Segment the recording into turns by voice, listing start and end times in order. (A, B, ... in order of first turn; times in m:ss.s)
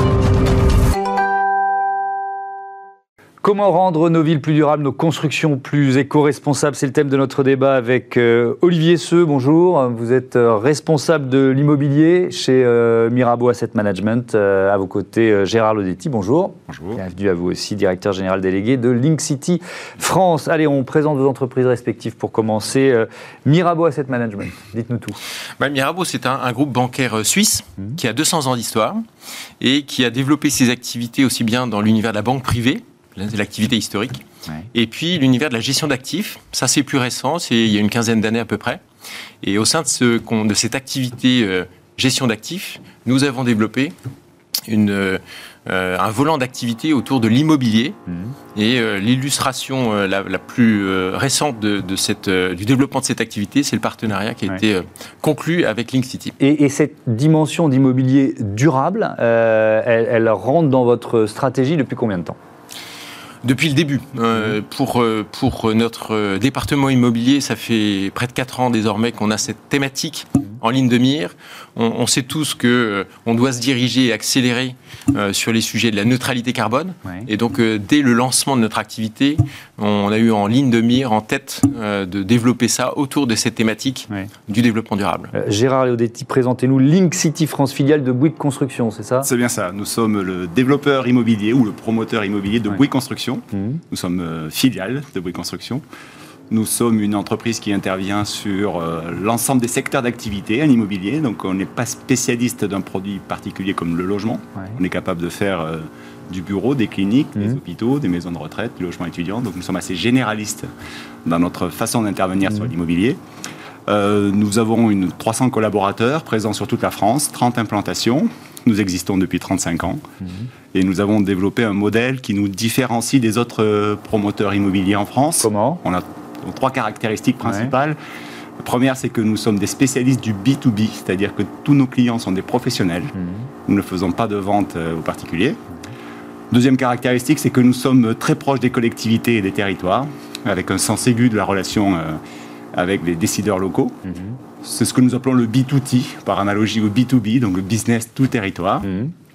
0:03.4-0:25.2 A
0:16.7-0:17.0 B
0:25.6-0:29.0 C
0:29.6-0:38.8 C
0:39.4-0:43.9 C
0:44.7-0:48.0 C
0:48.1-0:48.3 A
0:48.5-0:56.4 C
0:56.4-1:02.4 A
1:03.4-1:25.3 C
1:25.3-1:29.3 A
1:29.2-1:35.8 B
1:33.5-1:33.8 A
1:36.5-1:50.7 B
1:51.2-1:53.2 B
1:53.9-2:00.0 B
2:00.7-2:08.0 B
2:05.4-2:05.8 A
2:07.4-2:07.7 A
2:08.6-2:13.1 B
2:13.6-2:15.6 B
2:16.5-2:22.2 B
2:22.7-2:24.0 B
2:24.1-2:24.4 A
2:24.6-2:28.9 B
2:28.8-2:29.1 A